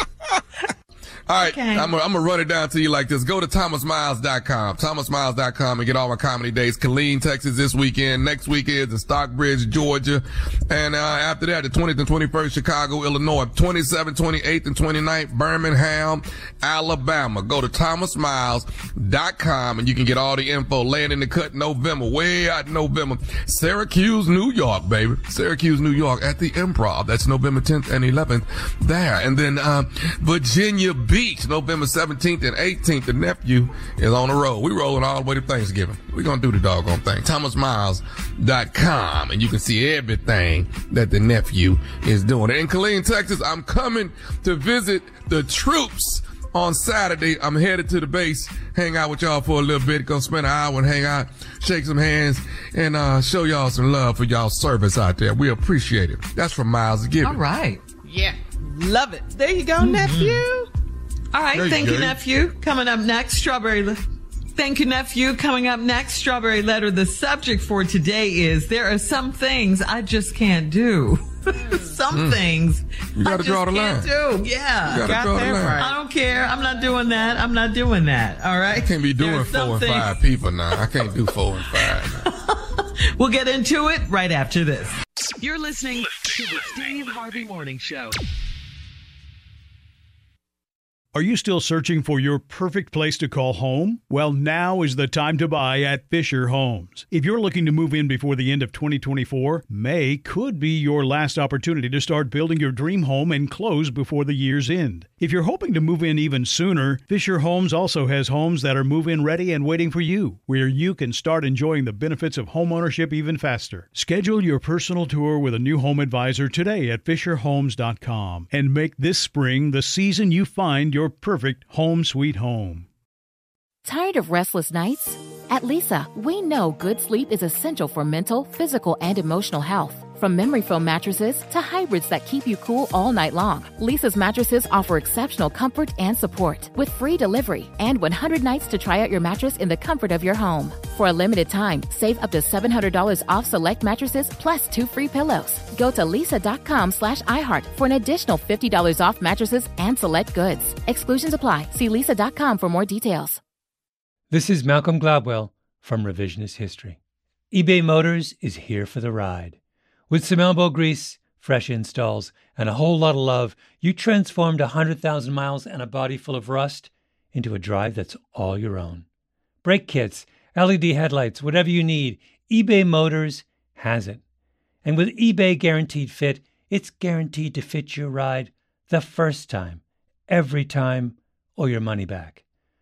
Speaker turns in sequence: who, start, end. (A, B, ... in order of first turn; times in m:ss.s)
0:01.3-0:57.4 A
0:01.4-0:01.9 B
0:57.2-0:57.8 B
0:58.0-1:00.6 C
0:59.8-1:00.5 B
1:01.3-1:04.0 B
1:01.5-1:02.2 A
1:04.6-1:15.0 B
1:12.1-1:12.5 A
1:13.2-1:14.3 A
1:14.8-1:15.8 A
1:15.0-1:15.8 C
1:15.8-1:20.1 B
1:18.7-1:22.2 A
1:21.8-1:28.1 B
1:31.1-2:02.9 D
2:03.8-2:33.4 E
2:34.3-2:37.0 F
2:37.5-2:39.5 F
2:40.1-2:49.0 F
2:49.6-2:54.2 F
2:54.8-3:02.4 F